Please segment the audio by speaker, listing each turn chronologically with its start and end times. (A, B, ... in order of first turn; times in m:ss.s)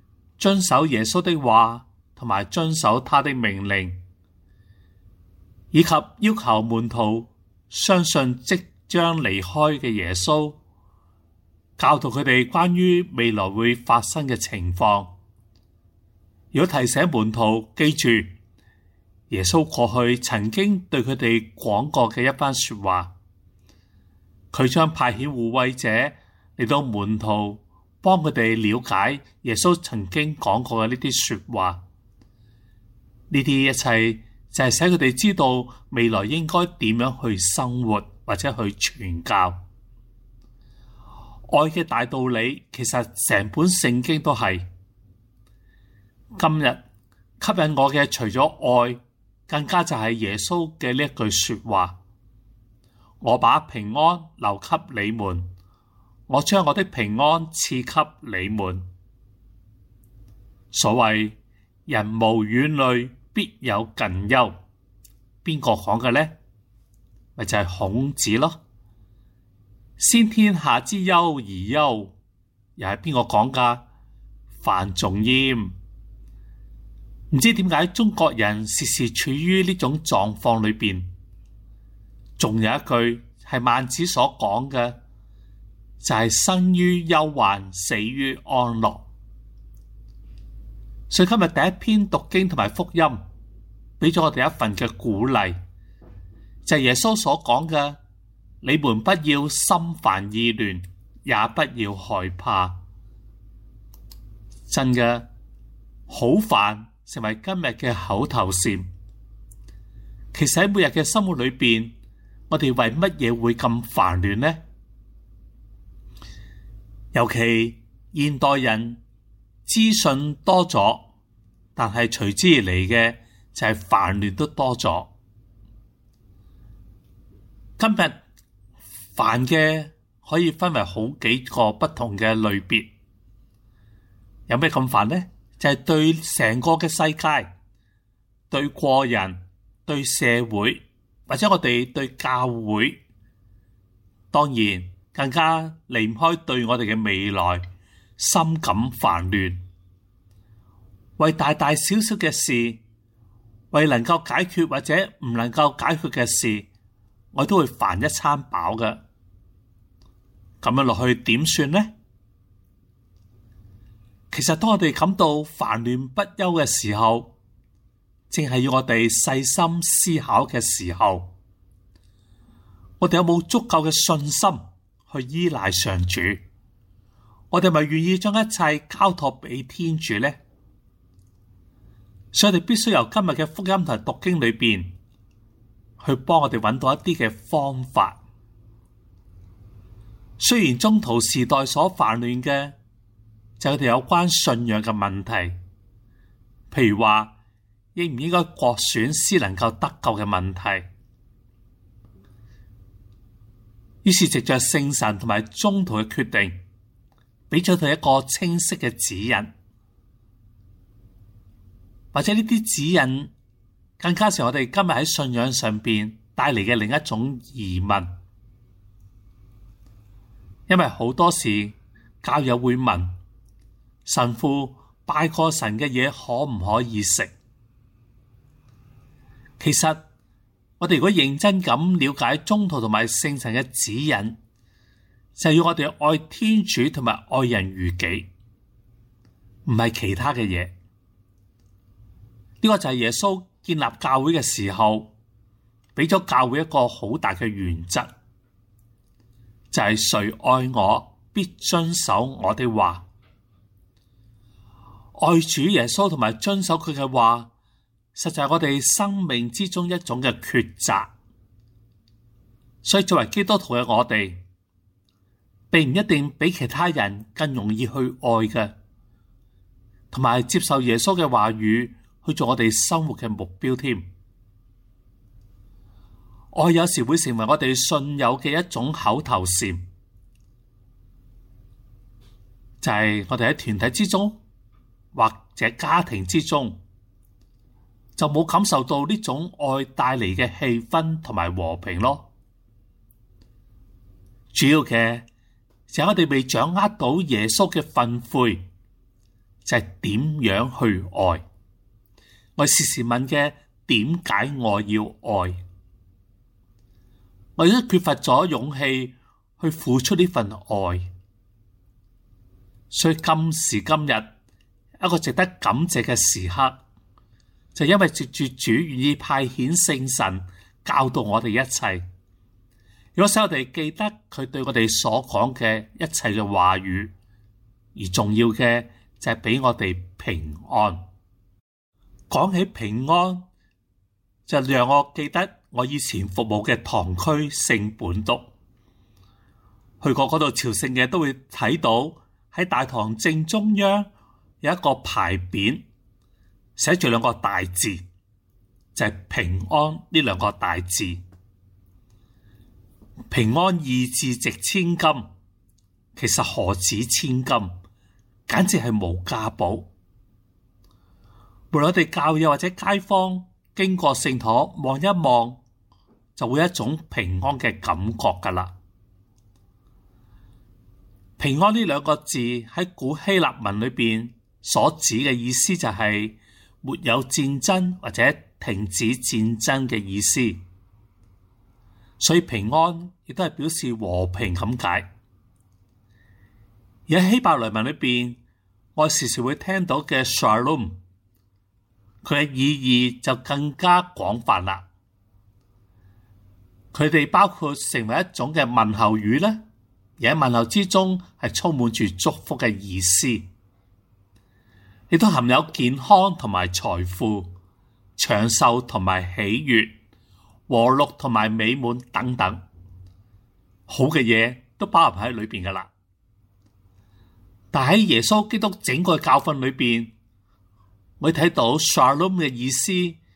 0:00.4-0:04.0 A
0:05.7-0:10.6 A
0:11.8-0:15.1 A
0:16.5-0:18.3 A
0:19.3-0:23.1 A
0:24.5-0:31.8 A
0:33.3-0:39.6 A
0:41.5-0:44.6 A
0:46.4-0:46.8 A
0:47.4-0:51.9 A
0:53.2-0:55.4 A
0:56.3-0:58.8 A
1:00.7-1:01.3 A
1:01.9-1:04.5 A
1:05.4-1:06.3 A
1:07.4-1:08.6 A
1:10.0-1:12.1 A
1:12.8-1:13.8 A
1:14.6-1:15.7 A
1:17.3-1:21.0 A
1:22.4-1:25.0 A
1:26.0-1:29.0 A
1:31.1-1:33.2 A
1:34.0-1:35.6 A
1:36.6-1:38.0 A
1:38.6-1:42.8 A
1:44.7-1:45.2 A
1:46.1-1:48.9 A
1:50.3-1:51.9 A
1:52.5-1:54.6 A
1:57.1-1:59.0 A
1:59.6-2:01.0 A
2:01.8-2:05.1 A
2:07.8-2:08.2 A
2:09.2-2:12.9 A
2:14.5-2:17.5 A
2:18.5-2:23.0 A
2:24.3-2:27.6 A
2:28.2-2:29.6 A
2:31.2-2:32.8 A
2:33.7-2:36.6 A
2:37.3-2:39.0 A
2:40.6-2:41.9 A
2:44.3-2:47.3 A
2:48.3-2:51.3 A
2:53.0-2:56.4 A
2:57.5-3:00.4 A
3:02.3-3:04.9 A
3:06.0-3:08.2 A
3:10.4-3:12.7 A
3:13.6-3:15.6 A
3:16.7-3:17.3 A
3:17.9-3:20.8 A
3:24.0-3:26.6 A
3:27.5-3:29.5 A
3:32.1-3:33.3 A
3:34.0-3:38.1 A
3:40.7-3:43.1 A
3:44.0-3:47.3 A
3:49.6-3:50.0 A
3:50.8-3:54.4 A
3:55.4-3:58.3 A
3:59.6-4:00.7 A
4:02.6-4:05.1 A
4:06.0-4:08.1 A
4:09.7-4:13.0 A
4:15.2-4:17.5 A
4:18.1-4:21.1 A
4:22.8-4:24.4 A
4:25.7-4:28.7 A
4:30.1-4:34.0 A
4:36.5-4:39.8 A
4:42.8-4:44.4 A
4:45.1-4:46.8 A
4:48.2-4:52.2 A
4:54.5-4:55.2 A
4:55.9-4:58.6 A
4:59.6-5:01.4 A
5:02.6-5:05.6 A
5:07.6-5:11.0 A
5:12.9-5:14.3 A
5:15.0-5:16.8 A
5:17.7-5:22.0 A
5:23.1-5:27.1 A
5:28.0-5:31.0 A
5:32.3-5:33.4 A
5:34.5-5:38.5 A
5:40.0-5:44.1 A
5:44.6-5:45.8 A
5:46.8-5:48.0 A
5:48.9-5:51.2 A
5:53.3-5:55.3 A
5:56.2-5:57.8 A
5:58.5-5:59.9 A
6:01.7-6:05.6 A
6:06.4-6:08.7 A
6:11.4-6:20.6 A
6:22.2-6:25.1 A
6:27.1-6:28.4 A
6:29.0-6:31.0 A
6:32.2-6:34.8 A
6:36.9-6:39.6 A
6:40.2-6:43.4 A
6:45.1-6:47.5 A
6:48.2-6:49.9 A
6:50.7-6:52.6 A
6:53.9-6:55.9 A
6:57.7-7:00.1 A
7:01.2-7:03.2 A